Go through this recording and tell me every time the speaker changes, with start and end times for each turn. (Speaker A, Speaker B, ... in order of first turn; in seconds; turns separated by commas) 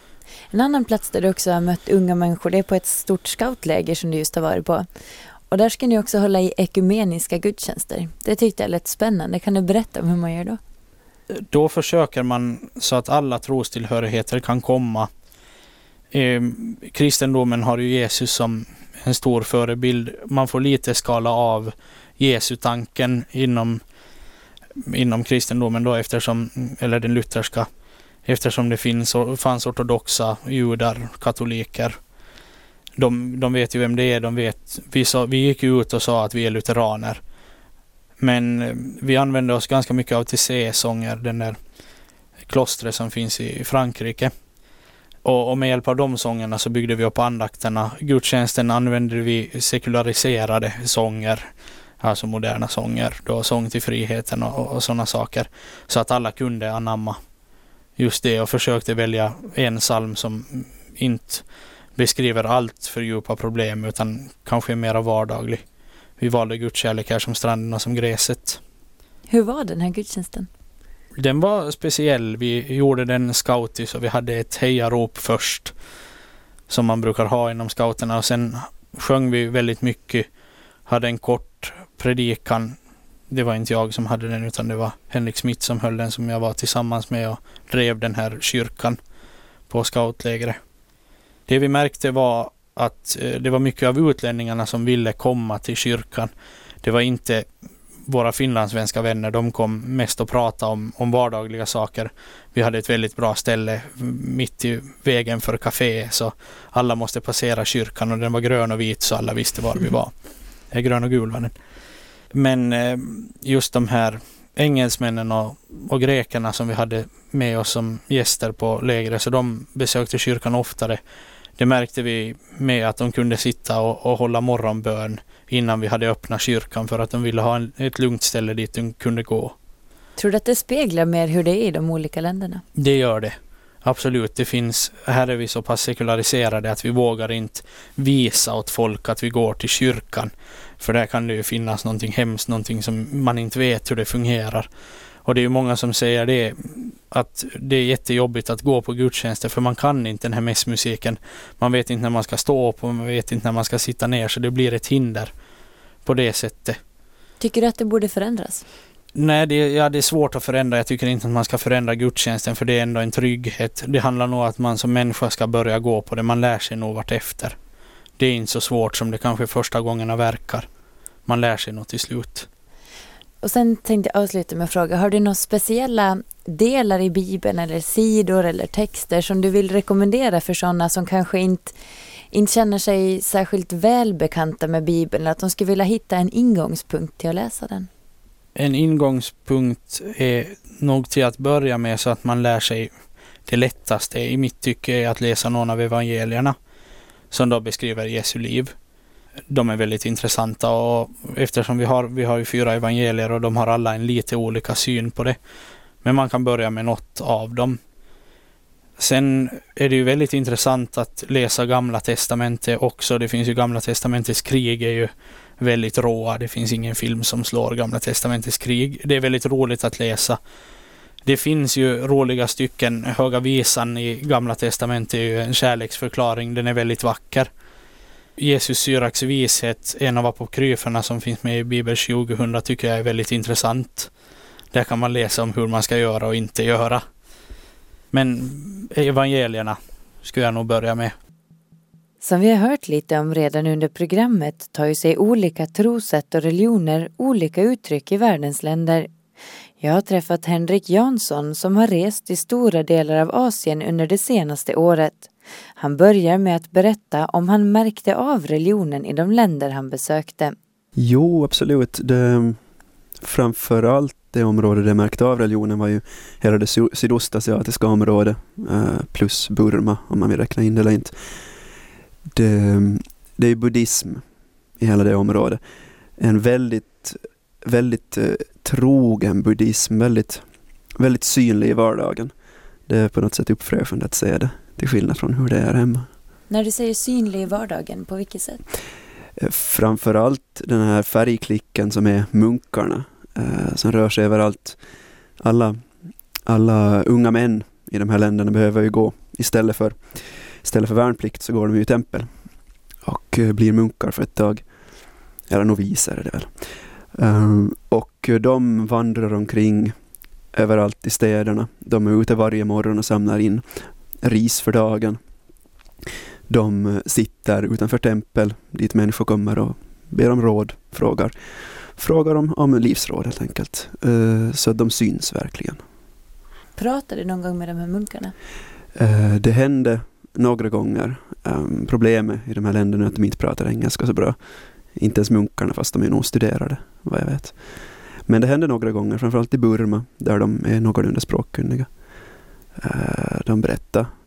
Speaker A: 0.5-4.9, Speaker A: 5.5-10.6, Speaker B: 11.3-15.1, Speaker B: 16.1-23.8, Speaker B: 24.8-27.7, Speaker B: 28.2-32.0, Speaker B: 33.0-37.2, Speaker B: 38.2-41.6, Speaker B: 42.5-44.3, Speaker B: 45.2-57.2, Speaker B: 58.0-61.4, Speaker B: 62.0-65.6, Speaker B: 66.2-68.6, Speaker A: 69.3-70.5, Speaker B: 71.2-75.7, Speaker B: 76.7-80.2, Speaker B: 80.9-82.8, Speaker B: 83.3-89.0, Speaker B: 89.7-90.6, Speaker B: 91.5-96.3, Speaker B: 96.8-97.5, Speaker B: 98.1-110.1, Speaker B: 110.7-111.5, Speaker B: 112.3-121.0, Speaker B: 121.6-129.5, Speaker A: 130.2-132.6, Speaker B: 132.7-144.7, Speaker B: 145.2-155.3, Speaker B: 156.0-156.8, Speaker A: 157.4-158.6, Speaker B: 159.1-167.6, Speaker B: 168.2-170.7, Speaker B: 171.3-172.5, Speaker A: 173.4-181.8, Speaker A: 182.3-187.9, Speaker B: 188.5-192.9, Speaker B: 193.5-196.5, Speaker B: 197.3-198.7, Speaker B: 199.5-205.4, Speaker B: 206.0-207.8, Speaker B: 209.0-220.4, Speaker B: 221.2-227.5, Speaker B: 228.4-234.1, Speaker B: 234.7-237.0, Speaker B: 238.1-241.1, Speaker A: 242.2-249.1, Speaker A: 249.8-260.5, Speaker C: 260.9-262.6, Speaker C: 263.2-271.1, Speaker C: 272.3-274.2, Speaker C: 274.8-275.6, Speaker C: 276.2-280.4, Speaker C: 281.0-282.3, Speaker C: 282.9-286.1, Speaker A: 286.5-288.6, Speaker C: 289.4-294.8, Speaker C: 295.4-295.8, Speaker C: 296.4-302.3, Speaker C: 303.0-304.6, Speaker C: 305.5-306.5, Speaker C: 307.1-309.9, Speaker C: 310.5-313.7, Speaker C: 314.2-315.2, Speaker C: 316.5-321.3, Speaker C: 321.9-325.8, Speaker A: 326.8-328.3, Speaker C: 328.9-334.4, Speaker C: 334.9-337.6, Speaker C: 338.3-341.9, Speaker C: 342.8-344.1